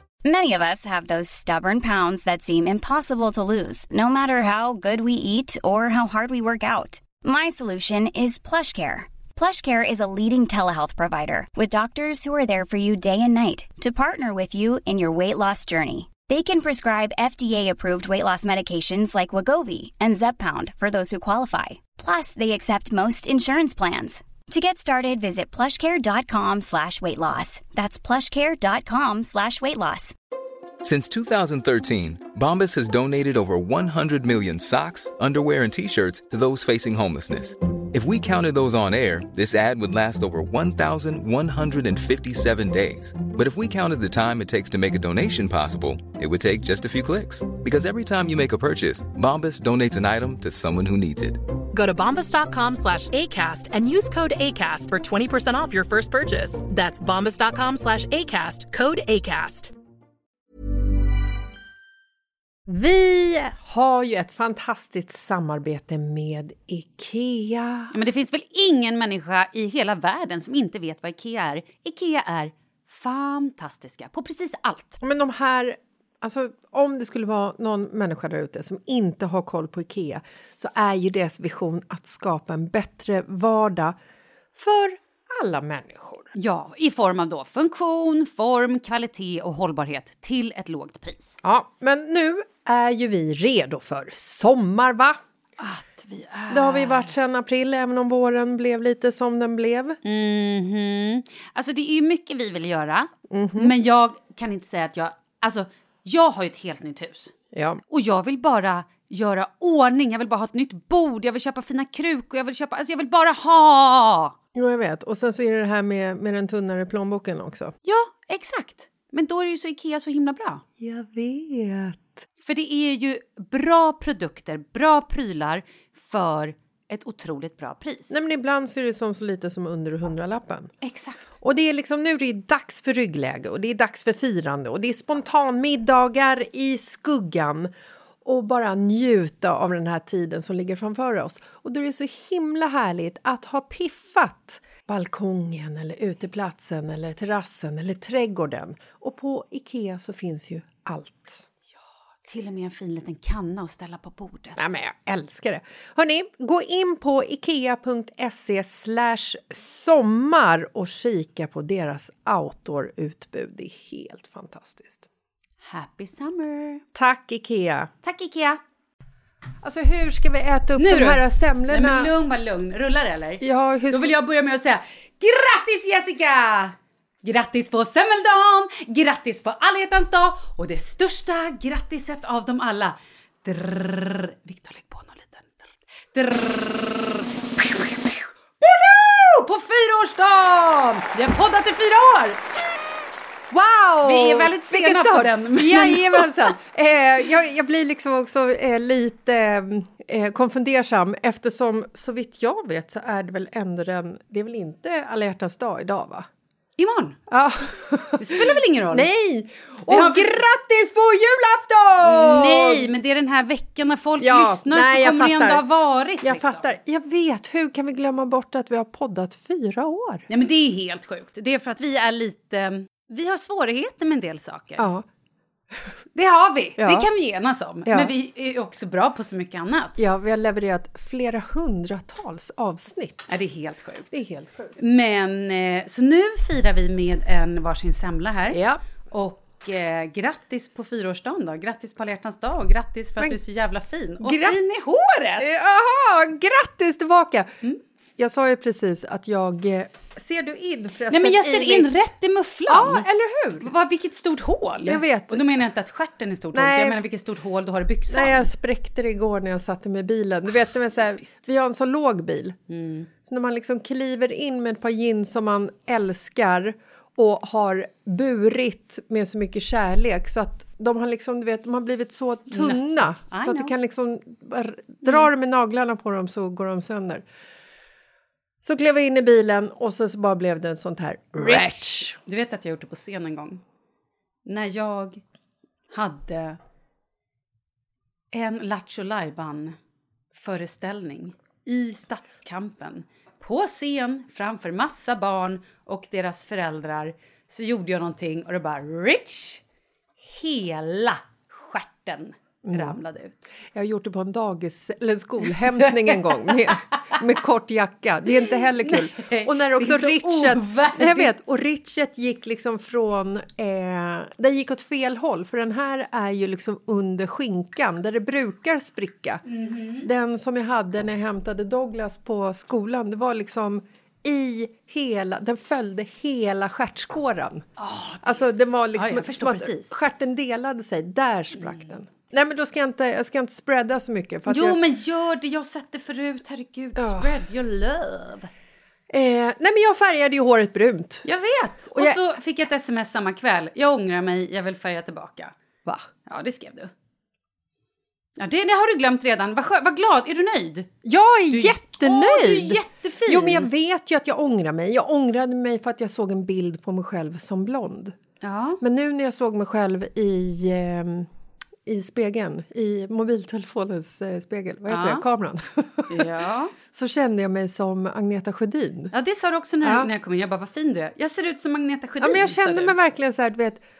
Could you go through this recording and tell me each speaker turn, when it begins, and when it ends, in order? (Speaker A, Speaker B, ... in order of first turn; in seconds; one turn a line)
Speaker A: 0.2-30.1
Speaker B: 30.8-51.4
Speaker C: 51.7-59.7
Speaker D: 62.7-67.9
Speaker E: 67.9-75.0
Speaker D: 75.0-84.0
Speaker D: 84.5-86.3
Speaker E: 86.3-91.3
Speaker D: 91.4-95.2
Speaker E: 95.6-97.1
Speaker D: 96.5-100.0
Speaker E: 100.0-107.3
Speaker D: 103.3-103.7
Speaker D: 107.5-107.8
Speaker E: 107.9-114.3
Speaker D: 114.5-117.7
Speaker E: 117.8-120.6
Speaker D: 120.8-122.2
Speaker E: 122.4-128.1
Speaker D: 128.1-130.7
Speaker E: 130.8-131.2
Speaker D: 131.4-137.7
Speaker D: 138.2-151.5
Speaker E: 152.3-154.6
Speaker D: 154.6-165.1
Speaker E: 165.6-166.8
Speaker D: 166.9-167.9
Speaker E: 168.0-168.6
Speaker D: 169.6-172.1
Speaker E: 170.8-192.4
Speaker D: 173.4-174.1
Speaker D: 193.5-206.3
Speaker E: 194.0-196.5
Speaker E: 206.8-207.2
Speaker D: 207.3-212.9
Speaker E: 208.2-209.1
Speaker E: 209.9-210.3
Speaker E: 212.0-216.7
Speaker D: 214.2-215.6
Speaker D: 216.2-220.2
Speaker E: 220.3-224.9
Speaker D: 224.8-225.1
Speaker E: 226.1-230.0
Speaker D: 226.8-227.1
Speaker D: 227.8-228.1
Speaker D: 230.0-233.4
Speaker E: 233.3-234.1
Speaker D: 234.1-234.7
Speaker E: 234.8-245.5
Speaker D: 238.5-238.8
Speaker D: 244.2-244.6
Speaker D: 245.4-247.5
Speaker D: 248.2-251.9
Speaker E: 251.1-253.1
Speaker D: 252.7-253.7
Speaker E: 253.6-258.5
Speaker D: 254.8-255.4
Speaker D: 256.5-257.0
Speaker D: 258.1-262.6
Speaker E: 262.7-263.1
Speaker D: 263.2-277.2
Speaker E: 272.5-273.7
Speaker D: 278.6-282.2
Speaker E: 281.4-283.6
Speaker E: 284.4-285.2
Speaker E: 285.9-286.6
Speaker E: 288.3-289.8
Speaker E: 290.3-299.6
Speaker E: 300.2-303.5
Speaker D: 302.6-303.0
Speaker D: 303.7-319.4
Speaker E: 305.8-306.8
Speaker E: 308.8-311.3
Speaker E: 319.5-320.1
Speaker D: 320.0-327.6
Speaker E: 327.8-329.9
Speaker D: 328.2-334.8
Speaker E: 334.5-338.5
Speaker D: 337.0-337.3
Speaker D: 339.1-341.2
Speaker E: 341.2-345.5
Speaker D: 341.9-342.2
Speaker E: 346.2-346.9
Speaker E: 348.4-350.9
Speaker D: 351.0-358.1
Speaker E: 351.5-353.7
Speaker E: 358.4-358.8
Speaker D: 358.8-361.3
Speaker D: 361.9-366.3
Speaker E: 364.9-365.2
Speaker E: 366.1-366.7
Speaker D: 366.9-369.1
Speaker E: 369.1-372.9
Speaker D: 369.8-370.1
Speaker D: 372.2-373.8